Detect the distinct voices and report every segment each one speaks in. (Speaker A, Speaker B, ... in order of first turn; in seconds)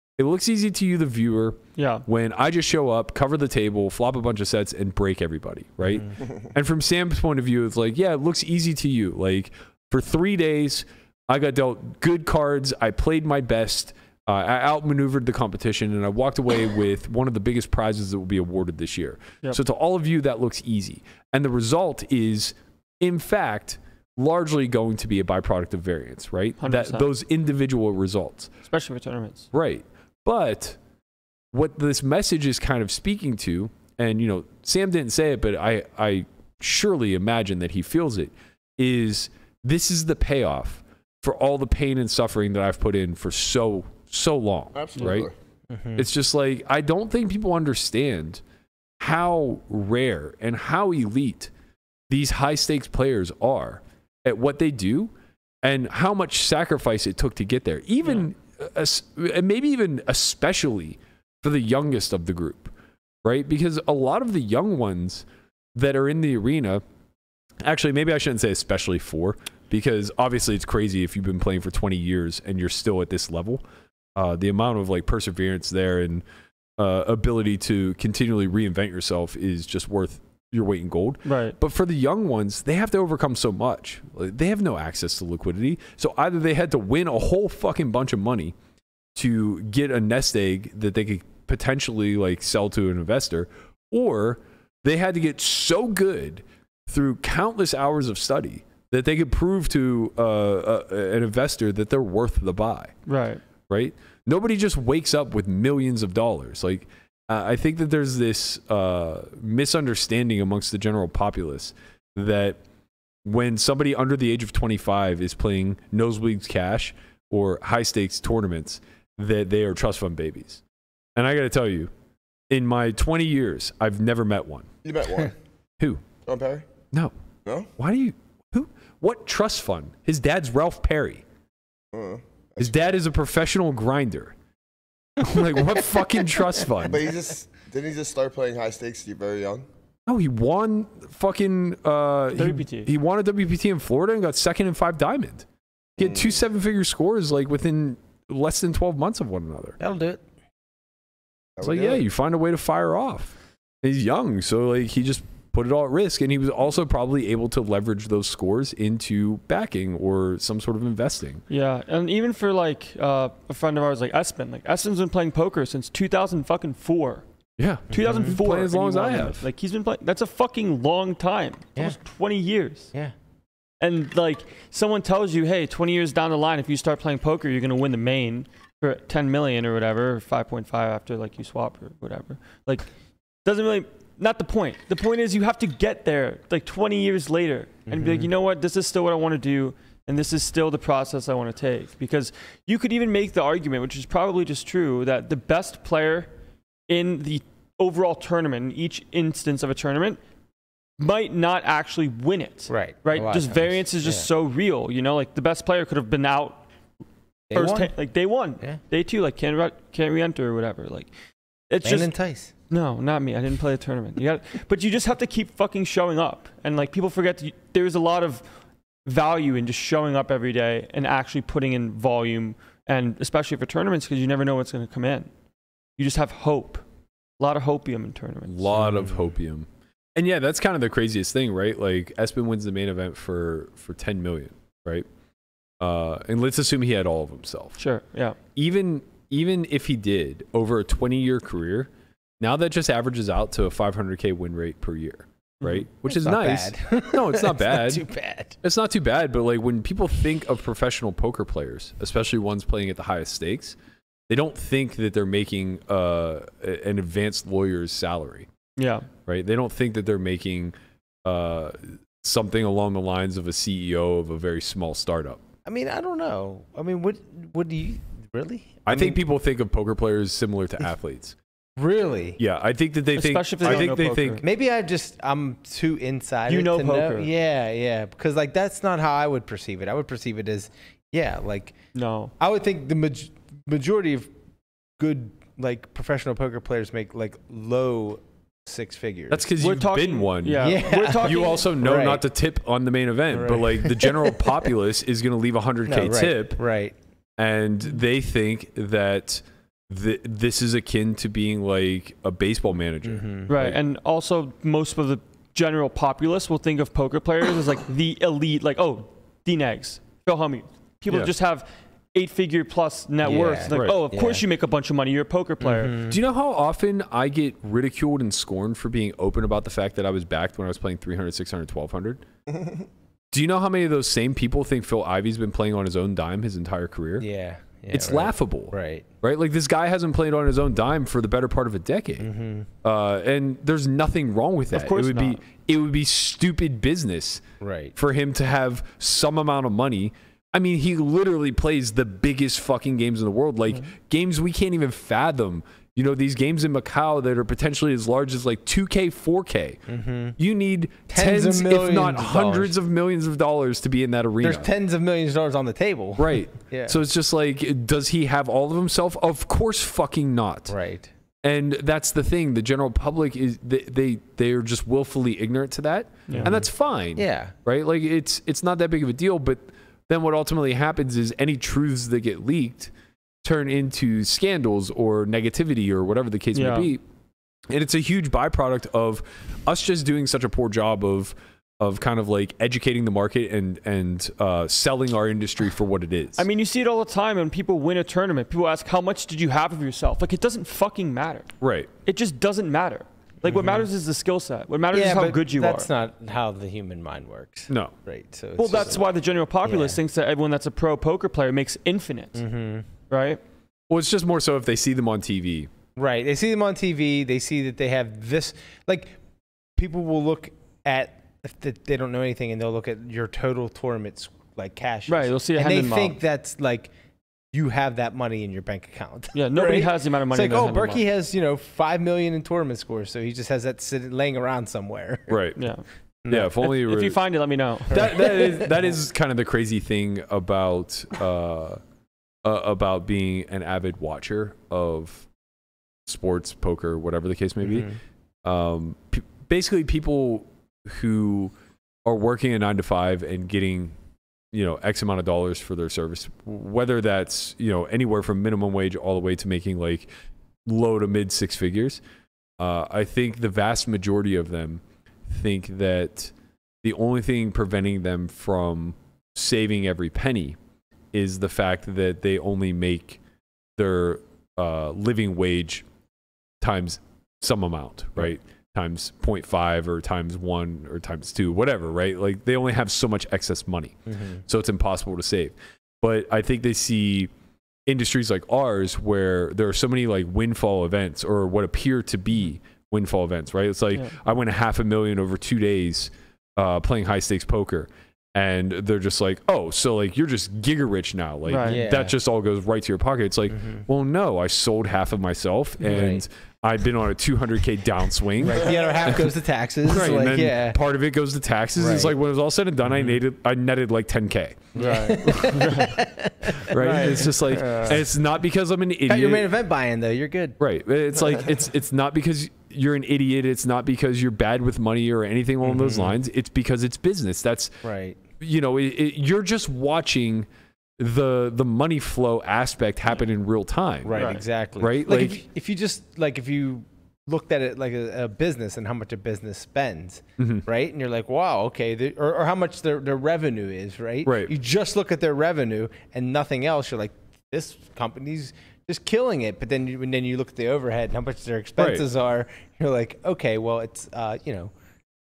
Speaker A: 0.2-28.5, 29.5-30.8, 31.5-45.3, 46.0-48.4, 49.0-51.5, 52.1-55.1, 55.6-62.7, 63.2-66.8, 67.6-73.6, 74.2-76.2, 76.8-88.5, 89.2-102.9, 103.7-112.6, 113.2-120.6, 121.2-121.9, 122.5-124.7, 127.8-131.2, 132.6-134.3, 135.2-137.1, 140.1-145.5, 146.0-149.8, 151.6-161.4, 167.6-169.5, 228.5-235.1, 235.8-237.8, 238.6-241.9, 242.4-248.1, 248.6-253.8, 254.3-258.5, 259.3-260.7, 261.2-265.4, 268.9-271.4, 272.4-274.4, 289.3-296.6, 297.4-303.8, 311.1-311.3, 313.7-314.0, 316.1-322.2, 323.3-327.3, 327.9-332.3, 332.8-337.4, 338.0-349.8, 350.4-354.7, 356.2-360.7, 361.4-372.9, 373.4-377.0, 377.7-386.4, 391.6-391.9, 397.7-397.9, 403.9-405.7, 425.3-425.6, 426.3-427.2, 427.9-431.8, 432.4-435.3, 436.1-437.9, 438.4-441.5, 442.1-444.0, 444.5-450.1, 450.7-452.0, 452.6-460.6, 461.1-463.2, 463.8-465.9, 466.6-477.3, 477.9-505.7, 506.7-509.5, 510.6-517.8, 518.4-520.5, 521.0-525.4, 530.4-530.6, 534.2-534.5, 541.8-542.0
Speaker B: 1.8-2.0, 26.6-27.1, 28.7-29.5, 81.2-81.6, 103.1-103.4, 142.3-142.9, 161.5-167.2, 167.9-172.9, 173.8-182.9, 183.4-196.3, 196.9-200.2, 201.0-206.6, 207.5-211.1, 211.7-212.1, 212.7-218.4, 219.1-225.3, 226.0-226.8, 227.4-228.7, 237.8-238.4, 245.6-245.9, 258.8-259.1, 273.1-274.4, 276.5-277.3, 281.9-282.3, 289.6-291.7, 303.5-315.9, 334.7-335.4, 366.3-366.5, 376.5-376.9, 386.4-391.5, 392.1-395.9, 398.6-402.4, 403.1-403.4, 415.1-416.2, 419.3-421.1, 425.6-425.8, 426.7-428.1, 491.5-491.8, 504.8-506.0, 506.8-507.6, 524.1-524.4
Speaker C: 44.8-45.3, 124.8-125.3, 126.2-126.7, 131.9-132.8, 136.8-139.7, 146.0-146.4, 151.6-152.0, 322.5-322.9
Speaker D: 45.7-46.1, 149.8-150.2, 167.9-168.4, 187.9-188.3, 202.7-204.3, 207.5-207.9, 211.8-212.5, 228.8-229.2, 246.1-248.6, 265.6-269.2, 271.8-272.4, 274.4-281.8, 282.4-284.3, 285.0-289.5, 290.6-292.2, 293.3-294.4, 295.9-297.0, 303.1-303.5, 313.2-314.4, 315.6-316.2, 327.2-329.1, 332.2-332.7, 337.6-337.9, 349.9-350.4, 351.1-352.7, 354.4-357.0, 360.7-361.1, 366.4-367.5, 393.5-393.8, 394.9-399.1, 399.6-400.0, 402.4-402.9, 406.0-409.2, 409.8-416.9, 417.5-425.4, 426.2-426.5, 427.9-428.7, 437.6-438.0, 474.1-474.4, 491.6-492.2, 493.5-493.8, 495.8-496.2, 498.4-500.8, 501.8-502.1, 504.8-508.0, 509.1-510.6, 515.6-516.2, 517.8-518.2, 524.1-544.7